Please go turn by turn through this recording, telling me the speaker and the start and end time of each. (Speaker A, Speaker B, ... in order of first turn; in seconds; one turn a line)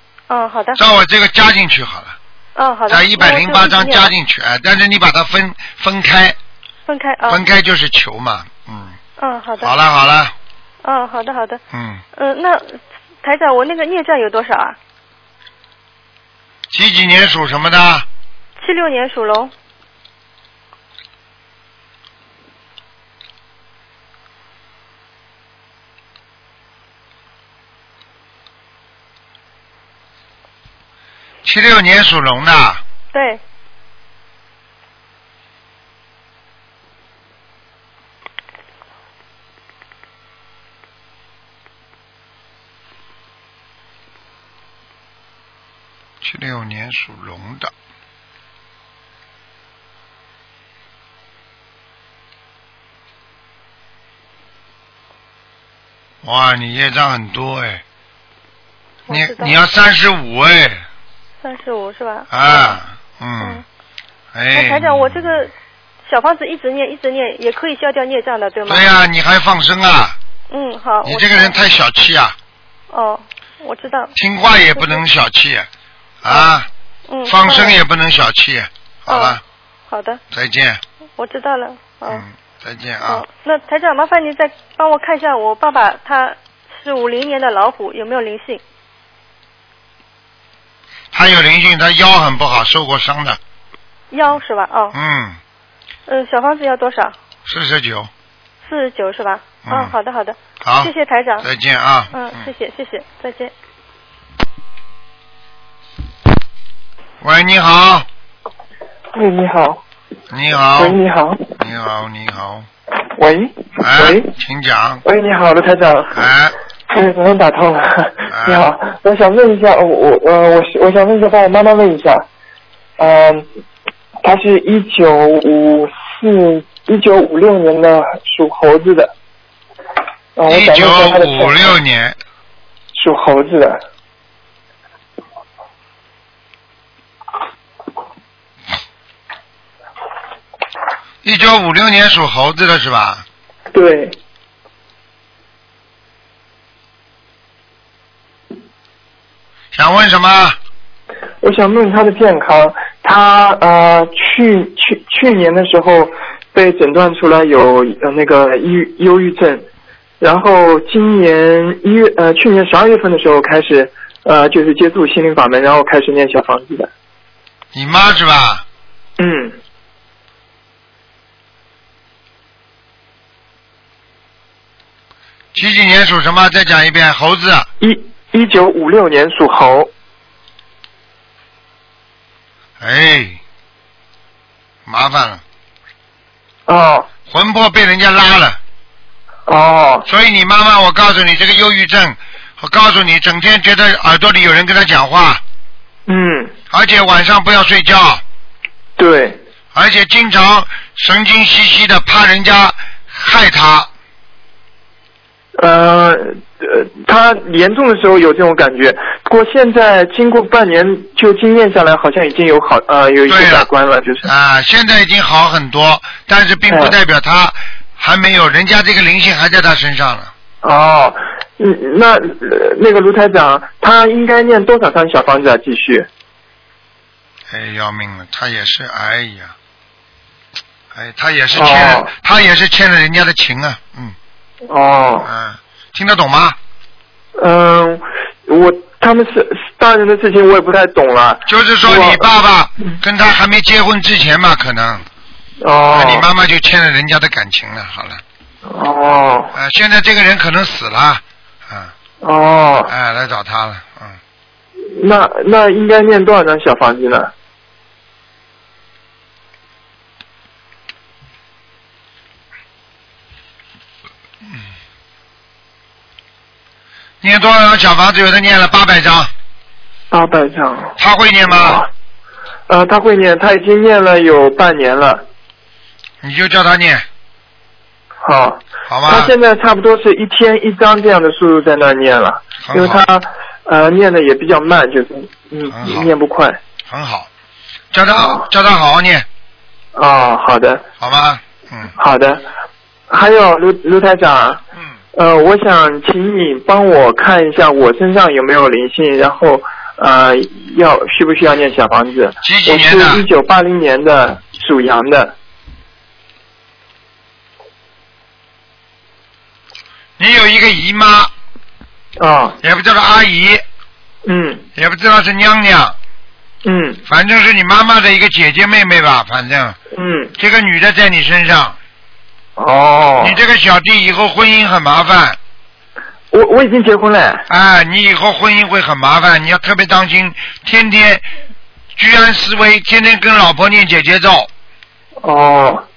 Speaker A: 0.3-0.8
Speaker B: 0.8-2.2
Speaker A: 2.6-4.1
Speaker B: 2.9-6.4
Speaker A: 6.9-7.4
Speaker B: 7.3-9.0
Speaker A: 9.2-9.7
Speaker B: 9.6-10.3
Speaker A: 10.8-11.6
Speaker B: 11.7-12.0
Speaker A: 12.2-14.8
Speaker B: 16.7-18.1
Speaker A: 18.6-19.5
Speaker B: 31.4-32.8
Speaker A: 33.1-33.4
Speaker B: 46.2-47.7
Speaker B: 56.2-57.8
Speaker A: 59.1-59.5
Speaker B: 59.1-60.9
Speaker A: 61.4-62.8
Speaker B: 62.3-63.6
Speaker B: 64.3-65.4
Speaker A: 64.5-65.5
Speaker A: 66.0-68.9
Speaker B: 68.7-70.2
Speaker A: 70.5-71.6
Speaker B: 71.0-72.4
Speaker A: 72.9-74.1
Speaker B: 74.2-75.7
Speaker A: 74.8-75.0
Speaker B: 76.2-76.7
Speaker A: 76.3-76.6
Speaker A: 77.1-77.8
Speaker B: 77.3-79.4
Speaker A: 79.1-80.2
Speaker B: 80.3-80.8
Speaker A: 81.2-82.2
Speaker B: 82.1-83.2
Speaker A: 83.1-88.6
Speaker B: 91.1-93.4
Speaker A: 94.1-95.0
Speaker B: 94.9-95.4
Speaker A: 96.1-97.2
Speaker B: 97.5-98.1
Speaker A: 98.6-101.5
Speaker B: 99.7-99.9
Speaker B: 100.6-102.4
Speaker A: 102.1-103.5
Speaker B: 107.2-108.1
Speaker C: 109.1-109.8
Speaker B: 110.3-111.0
Speaker C: 110.8-111.5
Speaker B: 111.6-112.7
Speaker C: 113.2-114.3
Speaker B: 113.8-115.0
Speaker C: 115.0-116.3
Speaker B: 116.1-116.6
Speaker C: 116.9-122.3
Speaker B: 118.3-118.6
Speaker C: 123.0-123.5
Speaker C: 124.2-129.1
Speaker C: 130.4-131.8
Speaker B: 130.5-132.2
Speaker C: 132.9-133.8
Speaker B: 141.2-143.2
Speaker C: 143.7-144.2
Speaker B: 149.7-150.6
Speaker C: 151.4-159.7
Speaker C: 160.2-166.9
Speaker B: 167.7-168.6
Speaker C: 169.2-169.6
Speaker B: 175.5-177.7
Speaker C: 177.8-179.9
Speaker B: 182.8-183.4
Speaker B: 184.9-185.4
Speaker C: 186.7-187.1
Speaker B: 187.3-188.6
Speaker C: 189.5-190.1
Speaker B: 190.1-195.4
Speaker C: 196.1-196.5
Speaker B: 196.7-198.2
Speaker C: 199.0-199.4
Speaker B: 199.7-203.9
Speaker C: 205.6-214.3
Speaker B: 213.3-213.7
Speaker B: 214.2-220.3
Speaker C: 216.7-216.9
Speaker C: 220.6-226.1
Speaker B: 227.5-229.5
Speaker B: 230.9-234.2
Speaker C: 231.6-232.1
Speaker C: 234.7-235.3
Speaker B: 235.2-236.6
Speaker C: 237.4-242.3
Speaker B: 241.5-245.1
Speaker C: 245.6-246.3
Speaker B: 245.9-248.2
Speaker C: 248.7-249.5
Speaker B: 249.5-251.9
Speaker C: 252.2-252.9
Speaker B: 252.9-254.2
Speaker C: 254.9-257.3
Speaker B: 267.2-269.3
Speaker C: 270.1-271.0
Speaker B: 271.0-271.8
Speaker C: 271.5-271.9
Speaker C: 272.7-275.2
Speaker B: 276.2-277.1
Speaker C: 278.2-286.6
Speaker B: 278.9-279.3
Speaker B: 282.6-283.0
Speaker B: 285.7-286.1
Speaker B: 286.9-287.3
Speaker B: 287.9-289.3
Speaker C: 288.2-288.4
Speaker C: 289.9-290.8
Speaker B: 291.0-291.9
Speaker C: 291.9-292.5
Speaker C: 293.1-294.6
Speaker C: 295.1-305.4
Speaker B: 302.4-303.2
Speaker B: 310.2-311.3
Speaker C: 312.2-312.6
Speaker B: 312.6-313.6
Speaker C: 314.2-314.6
Speaker B: 314.8-316.0
Speaker C: 316.6-317.0
Speaker B: 317.1-319.8
Speaker C: 319.9-320.3
Speaker B: 320.4-321.8
Speaker C: 322.6-323.4
Speaker B: 323.2-325.4
Speaker C: 326.3-327.4
Speaker B: 327.5-331.3
Speaker B: 332.0-334.5
Speaker C: 335.2-335.9